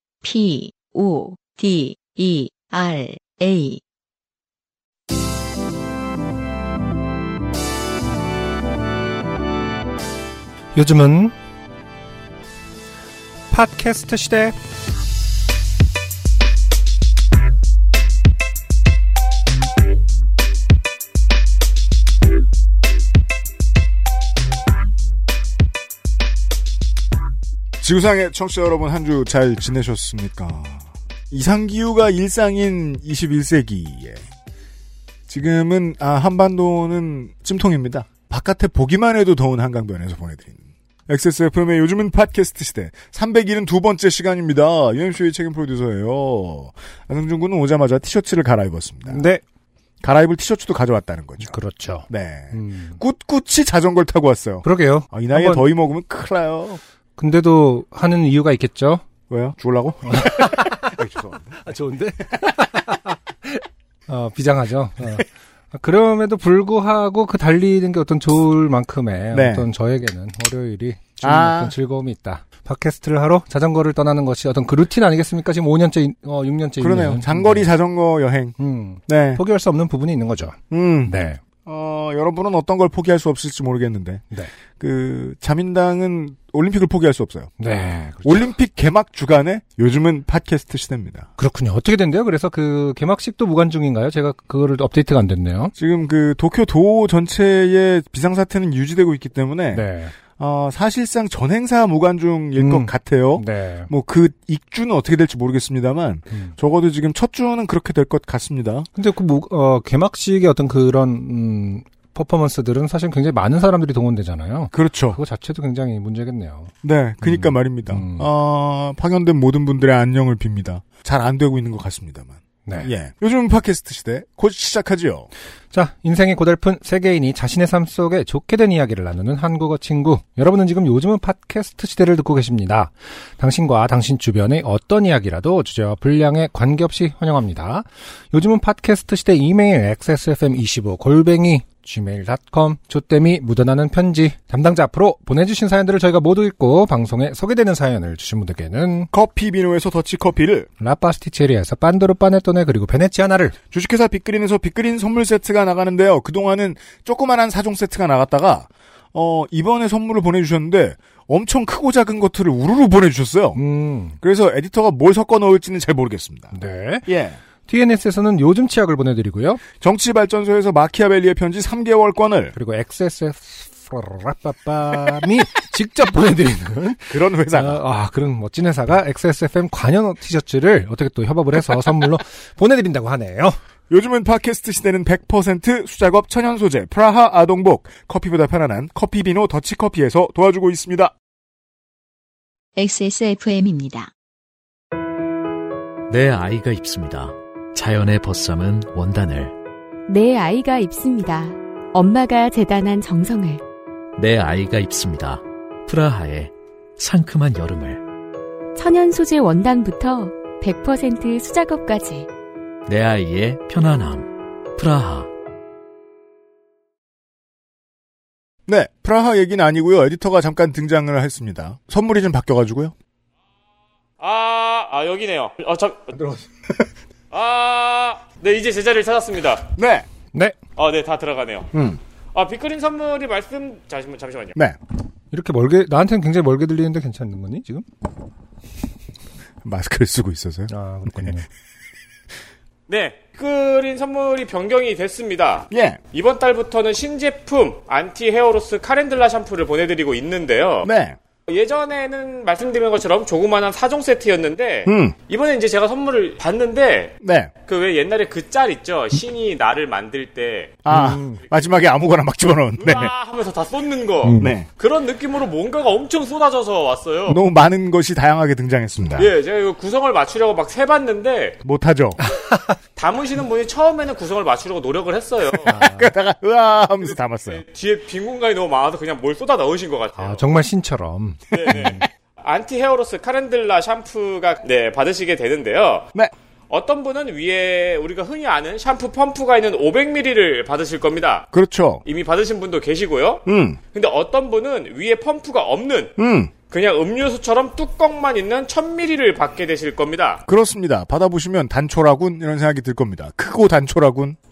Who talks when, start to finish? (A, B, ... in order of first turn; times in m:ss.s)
0:00.2-0:03.8 A
0:10.7-0:11.3 B
0:13.5-0:14.6 B
0:27.8-0:34.2 C
0:35.3-0:49.2 C
0:49.1-0:49.4 B
0:50.0-0:51.5 C
0:51.4-0:53.0 B
0:52.1-0:56.8 C
0:54.6-0:55.7 B
0:57.2-0:59.0 B
0:59.3-1:01.6 C
1:00.1-1:00.9 B
1:01.6-1:17.7 B
1:09.3-1:09.7 C
1:11.2-1:11.7 C
1:16.8-1:18.6 C
1:18.6-1:21.4 B
1:19.1-1:19.4 C
1:20.7-1:27.5 C
1:27.6-1:28.5 B
1:28.2-1:31.3 C
1:31.4-1:35.7 B
1:35.8-1:48.9 C
1:39.7-1:40.1 B
1:42.6-1:43.9 B
1:46.3-1:46.6 B
1:49.0-1:58.3 B
1:54.7-1:55.2 C
1:56.8-2:05.3 C
2:02.6-2:02.9 B
2:05.7-2:29.1 B
2:29.1-2:30.7 C
2:30.8-2:33.6 B
2:33.7-2:43.6 C
2:43.5-2:44.2 B
2:44.2-2:46.5 C
2:46.5-2:47.1 B
2:47.0-2:47.4 C
2:47.6-2:49.6 B
2:49.8-2:52.5 C
2:52.5-3:03.6 B
2:57.0-2:57.8 C
3:03.9-3:11.1 C
3:12.8-3:14.1 A
3:16.1-3:19.5 D
3:20.1-3:23.6 E
3:24.2-3:28.0 D
3:28.7-3:32.3 E
3:32.8-3:35.3 D
3:38.7-3:42.9 C
3:44.2-3:46.5 F
3:47.3-3:49.7 F
3:49.8-3:50.1 C
3:50.8-3:51.7 F
3:51.7-3:52.0 C
3:52.3-3:54.6 F
3:55.3-3:57.8 B
3:59.6-4:01.3 C
4:00.7-4:01.5 B
4:02.9-4:10.9 F
4:05.7-4:06.0 C
4:10.8-4:11.2 C
4:11.5-4:17.1 F
4:14.8-4:15.2 C
4:17.2-4:17.5 C
4:17.6-4:20.8 F
4:20.8-4:23.1 C
4:20.9-4:21.4 B
4:22.8-4:27.4 F
4:24.2-4:24.5 B
4:24.4-4:24.7 C
4:27.3-4:29.3 C
4:29.2-4:31.6 F
4:31.6-4:32.2 C
4:32.3-4:32.8 B
4:33.0-4:35.7 F
4:35.6-4:37.6 C
4:35.7-4:36.1 B
4:37.5-4:40.4 F
4:40.2-4:42.0 B
4:41.5-4:46.1 F
4:46.7-4:51.5 F
4:51.5-4:52.0 C
4:52.0-4:56.1 F
4:53.4-4:53.8 C
4:56.2-4:56.5 C
4:56.7-5:00.4 F
5:00.4-5:04.4 C